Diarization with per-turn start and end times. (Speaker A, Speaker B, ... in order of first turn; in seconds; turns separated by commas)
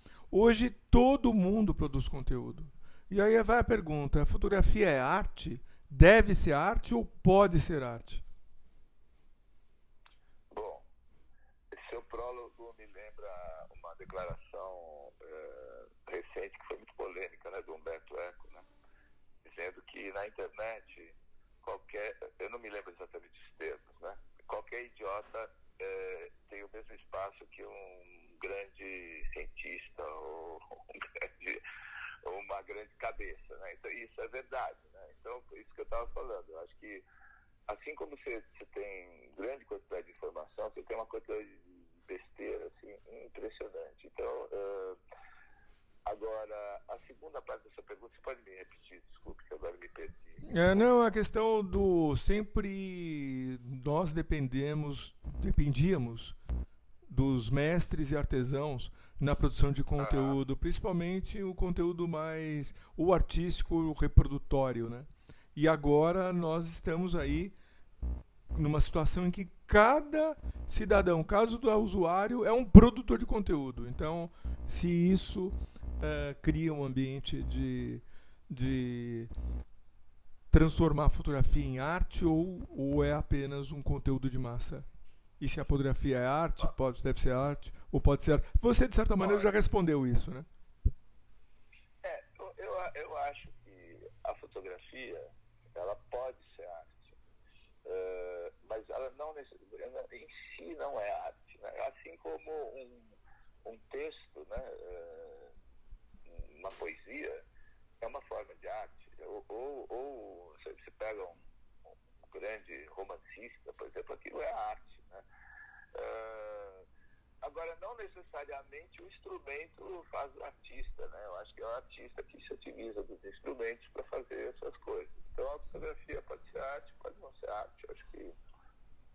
Speaker A: 0.3-8.2, Speaker B: 10.5-10.9, Speaker B: 11.7-18.7, Speaker B: 19.4-31.6, Speaker B: 32.2-37.0, Speaker B: 37.7-45.0, Speaker B: 46.0-50.8, Speaker A: 50.4-56.4, Speaker A: 57.1-67.5, Speaker B: 60.0-60.4, Speaker A: 68.5-79.3, Speaker A: 80.5-84.9, Speaker A: 85.4-90.5, Speaker B: 89.2-89.5, Speaker B: 92.0-97.2, Speaker B: 97.8-105.5, Speaker B: 106.3-107.4, Speaker B: 108.0-111.4, Speaker B: 112.2-115.2, Speaker B: 115.9-116.8, Speaker B: 117.4-128.3